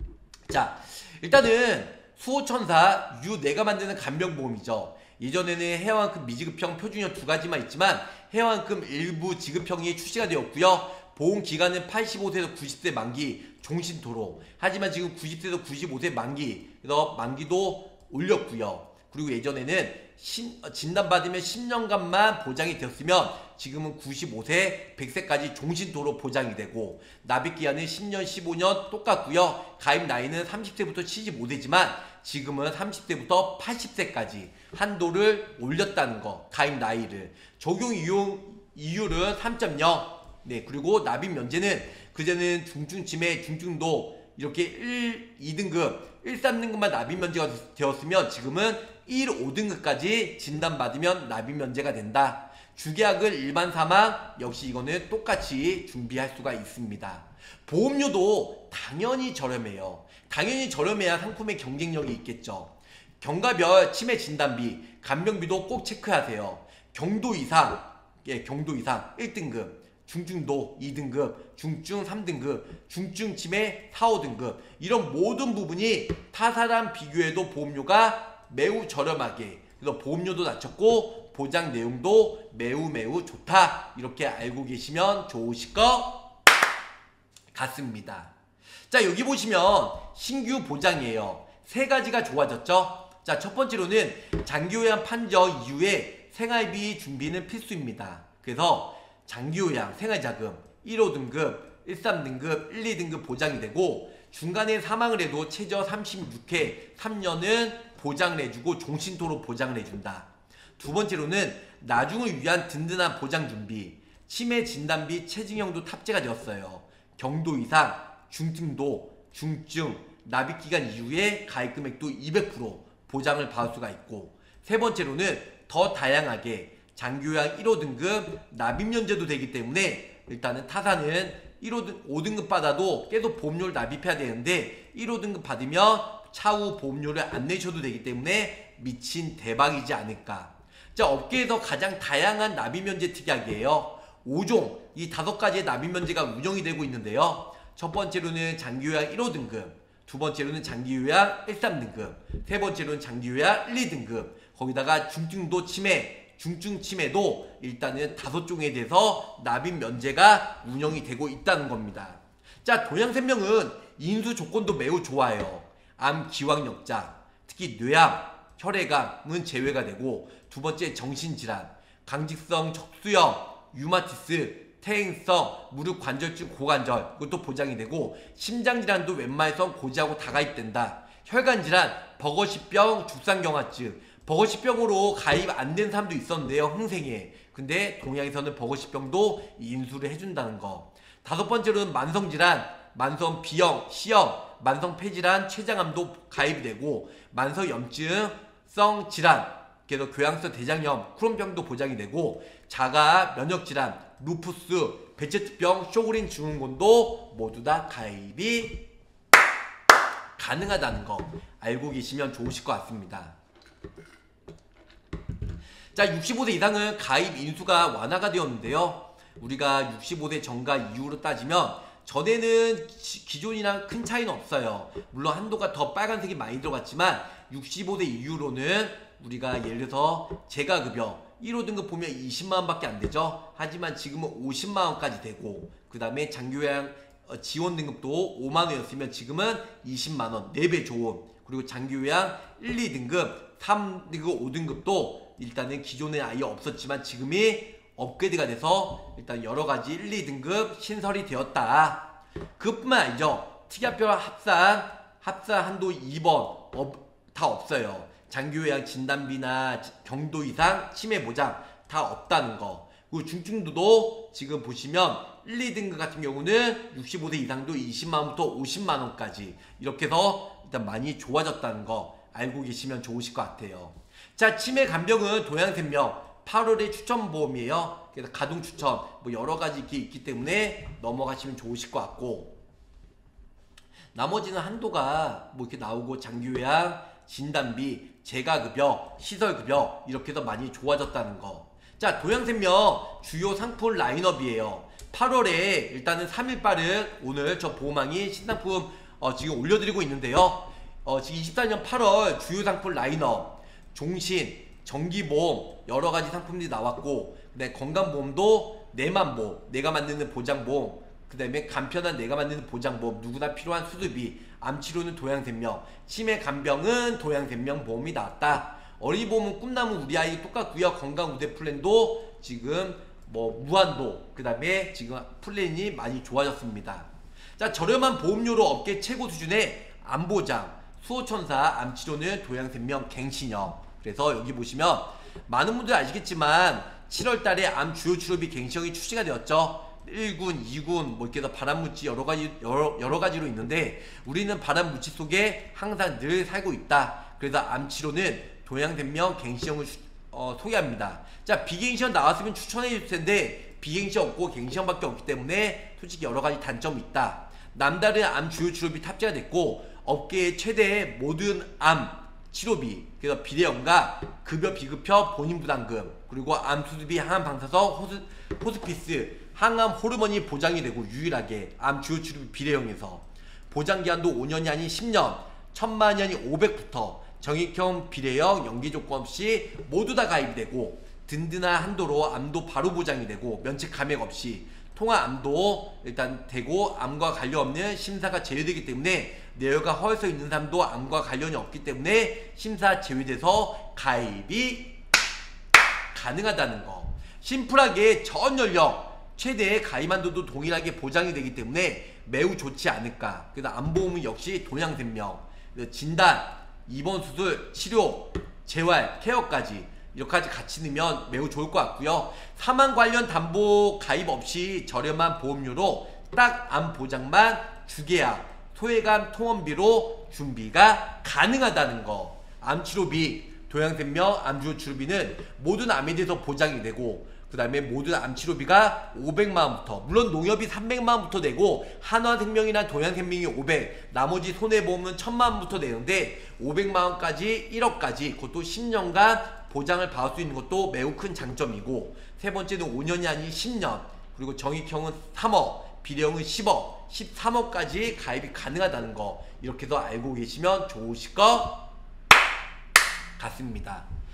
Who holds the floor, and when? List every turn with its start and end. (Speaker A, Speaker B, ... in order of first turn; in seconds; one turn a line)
Speaker A: 0.5-86.3
Speaker A: 87.5-88.3
Speaker A: 88.9-208.9
Speaker A: 210.4-213.3
Speaker A: 215.9-282.6
Speaker A: 284.1-395.0
Speaker A: 396.1-451.9
Speaker A: 453.4-454.1